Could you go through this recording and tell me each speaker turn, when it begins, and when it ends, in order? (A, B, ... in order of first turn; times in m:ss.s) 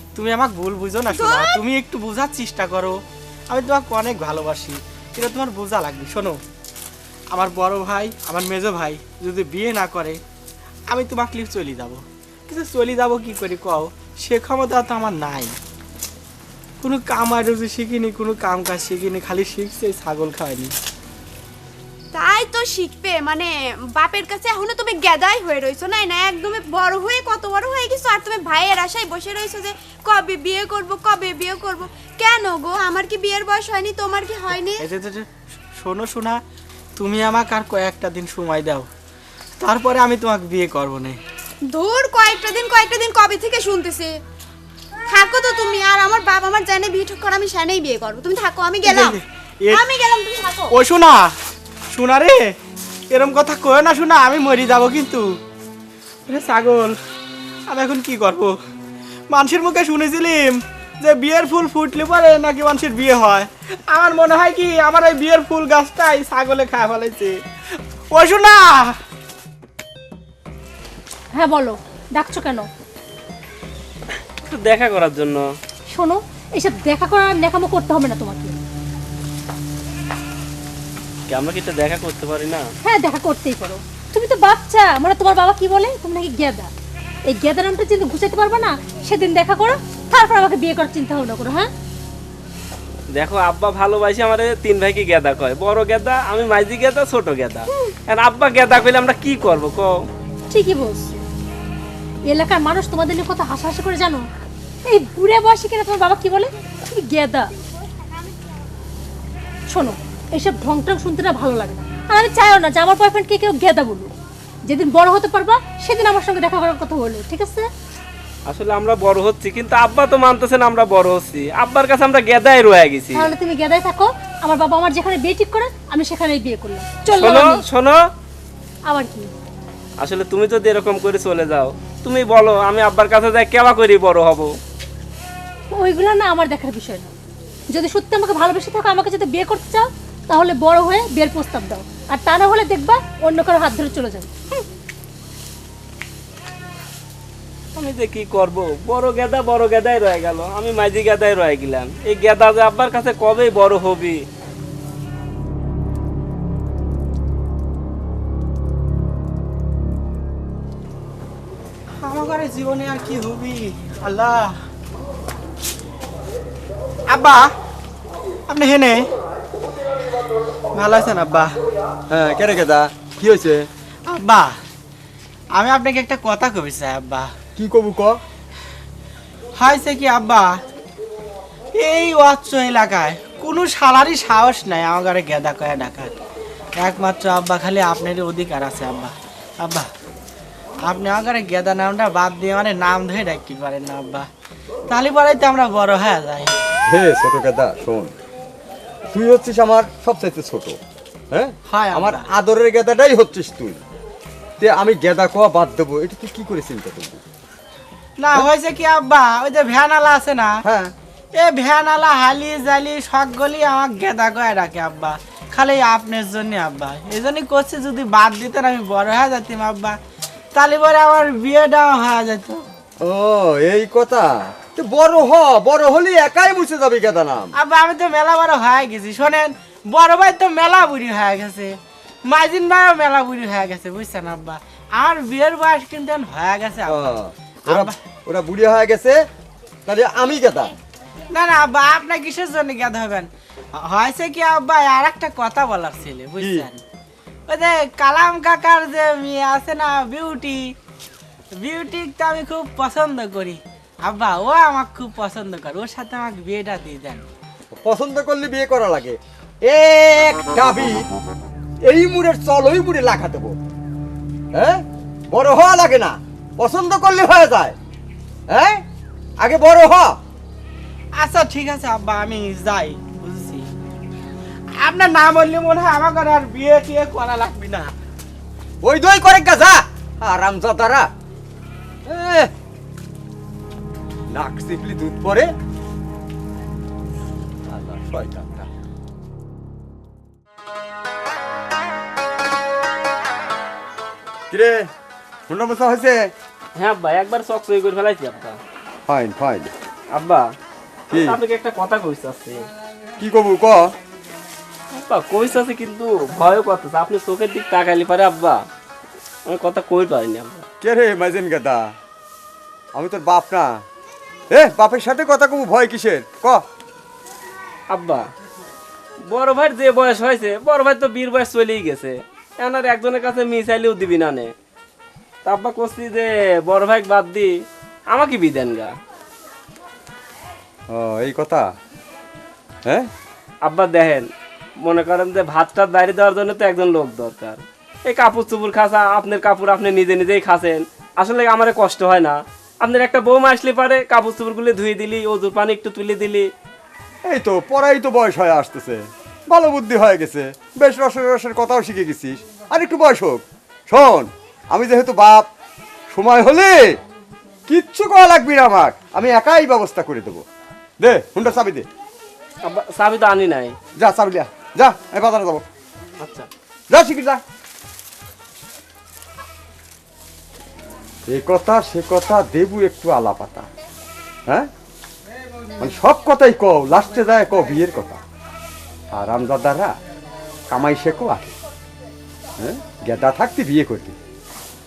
0:00.2-0:06.4 A
0:01.1-0:01.6 B
0:07.3-0:10.2 A
0:10.9-0:15.6 A
0:16.8-0:20.8 A
0:22.1-0:34.8 B
0:34.8-0:36.4 A
0:37.0-0:38.9 A
0:39.6-0:41.2 A
0:41.6-0:44.2 B
0:45.1-0:50.7 B
0:48.8-0:49.8 A
0:50.7-0:51.3 A
0:51.9-0:52.5 A
0:53.1-0:55.4 A
0:56.3-0:57.0 A
0:57.7-0:58.6 A
0:59.3-1:07.4 A
1:08.1-1:09.0 A
1:11.3-1:12.7 C
1:14.5-1:15.5 D
1:15.9-1:18.6 C
1:21.3-1:22.7 D
1:22.8-1:26.7 C
1:27.3-1:31.7 C
1:33.1-1:40.0 D
1:40.5-1:41.2 C
1:42.3-1:44.3 C
1:44.9-1:47.5 C
1:49.7-1:54.1 C
1:54.7-1:57.7 C
1:58.5-2:03.3 D
2:03.1-2:07.7 C
2:07.2-2:08.1 D
2:08.9-2:09.3 C
2:10.0-2:14.6 D
2:15.7-2:17.1 C
2:17.7-2:24.6 C
2:27.8-2:34.2 D
2:42.0-2:44.6 A
2:47.1-2:47.5 A
2:48.5-2:49.1 A
2:50.7-2:51.5 A
2:52.1-2:53.7 E
2:54.1-2:54.6 A
2:55.6-2:57.3 A
2:57.6-2:58.2 E
2:59.6-3:00.6 A
3:01.7-3:06.1 A
3:06.8-3:09.9 A
3:10.9-3:14.3 A
3:14.9-3:16.6 A
3:16.9-3:18.1 E
3:19.1-3:20.8 E
3:21.3-3:23.8 E
3:21.7-3:22.2 A
3:24.6-3:27.2 E
3:28.2-3:30.6 A
3:30.6-3:30.9 E
3:31.4-3:40.0 A
3:40.5-3:42.6 A
3:43.0-3:47.5 E
3:47.6-3:57.1 A
3:56.9-3:59.2 E
3:57.7-3:57.9 A
3:59.9-4:00.7 E
4:01.3-4:06.8 A
4:06.4-4:06.7 E
4:07.5-4:10.7 A
4:11.6-4:17.2 A
4:17.8-4:21.0 E
4:21.8-4:23.6 E
4:24.5-4:27.8 E
4:28.5-4:28.8 E
4:29.4-4:30.2 E
4:31.2-4:33.7 A
4:34.8-4:37.9 A
4:38.8-4:41.1 E
4:42.1-4:42.5 E
4:44.3-4:45.5 E
4:47.7-4:48.7 E
4:54.5-4:54.9 E
4:55.5-4:56.3 E
4:56.8-4:58.6 D
4:59.1-4:59.7 E
5:00.1-5:00.5 D
5:01.1-5:01.4 E
5:01.1-5:02.7 D
5:03.2-5:03.9 E
5:04.9-5:08.7 D
5:09.5-5:10.6 D
5:10.8-5:11.8 E
5:12.9-5:13.8 E
5:14.5-5:16.6 E
5:17.9-5:18.3 D
5:19.2-5:24.5 D
5:25.4-5:29.0 D
5:30.9-5:31.7 E
5:33.6-5:46.5 D
5:47.3-5:55.5 E
5:56.1-5:56.8 E
5:57.7-6:00.4 E
6:01.0-6:01.9 E
6:02.6-6:03.8 D
6:04.0-6:05.6 E
6:06.2-6:06.5 D
6:06.9-6:07.4 E
6:11.3-6:13.7 E
6:15.8-6:18.2 E
6:19.1-6:19.9 E
6:20.7-6:21.5 E
6:22.6-6:24.2 E